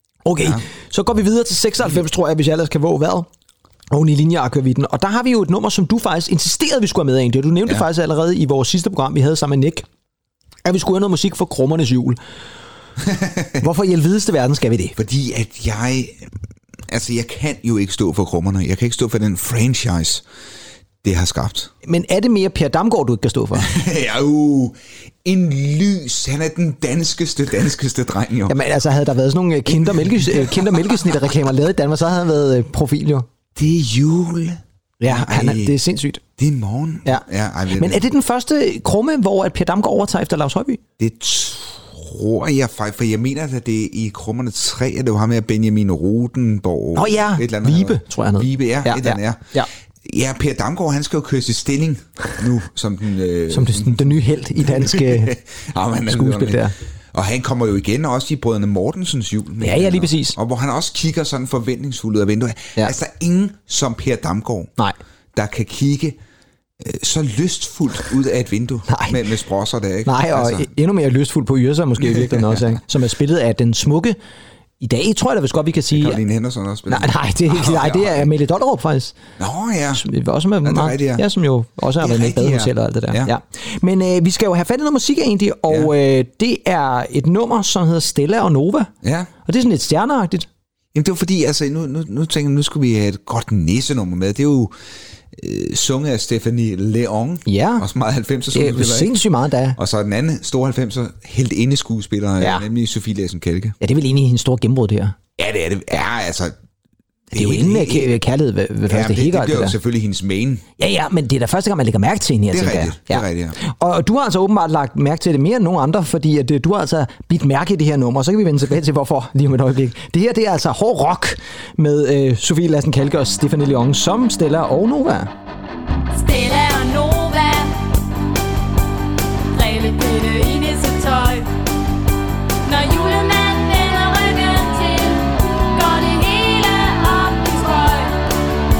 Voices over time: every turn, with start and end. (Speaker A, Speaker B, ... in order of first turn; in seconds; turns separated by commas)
Speaker A: 0.2-3.3, Speaker A: 3.9-9.8, Speaker A: 10.6-12.2, Speaker B: 13.0-13.6, Speaker A: 13.6-14.9, Speaker B: 15.0-16.4, Speaker B: 16.9-20.2, Speaker B: 21.0-21.7, Speaker A: 21.8-23.7, Speaker B: 23.6-28.6, Speaker A: 28.5-33.2, Speaker B: 29.7-31.3, Speaker B: 33.5-35.8, Speaker A: 35.0-36.2, Speaker B: 36.4-38.0, Speaker A: 37.0-40.8, Speaker B: 41.0-49.5, Speaker A: 47.0-49.7, Speaker B: 50.0-64.7, Speaker A: 53.5-55.3, Speaker A: 56.1-56.7, Speaker A: 59.6-60.4, Speaker B: 65.3-66.2, Speaker B: 66.8-70.7, Speaker A: 68.9-69.2, Speaker A: 70.0-74.2, Speaker B: 72.0-72.8, Speaker A: 74.8-76.2, Speaker B: 75.9-78.3, Speaker A: 76.9-79.2, Speaker B: 79.4-80.0, Speaker A: 80.0-88.9, Speaker B: 80.6-81.2, Speaker B: 82.0-83.3, Speaker B: 89.0-89.3, Speaker A: 89.5-90.5, Speaker B: 90.9-94.7, Speaker B: 95.3-99.2, Speaker A: 97.5-97.8, Speaker A: 98.5-99.8, Speaker B: 99.8-103.8, Speaker A: 103.8-105.2, Speaker B: 105.4-106.5, Speaker B: 107.3-108.1, Speaker A: 107.3-109.8, Speaker B: 108.9-110.6, Speaker A: 110.8-125.3, Speaker B: 112.5-113.6, Speaker C: 126.1-127.7, Speaker C: 129.5-131.5, Speaker C: 132.7-138.2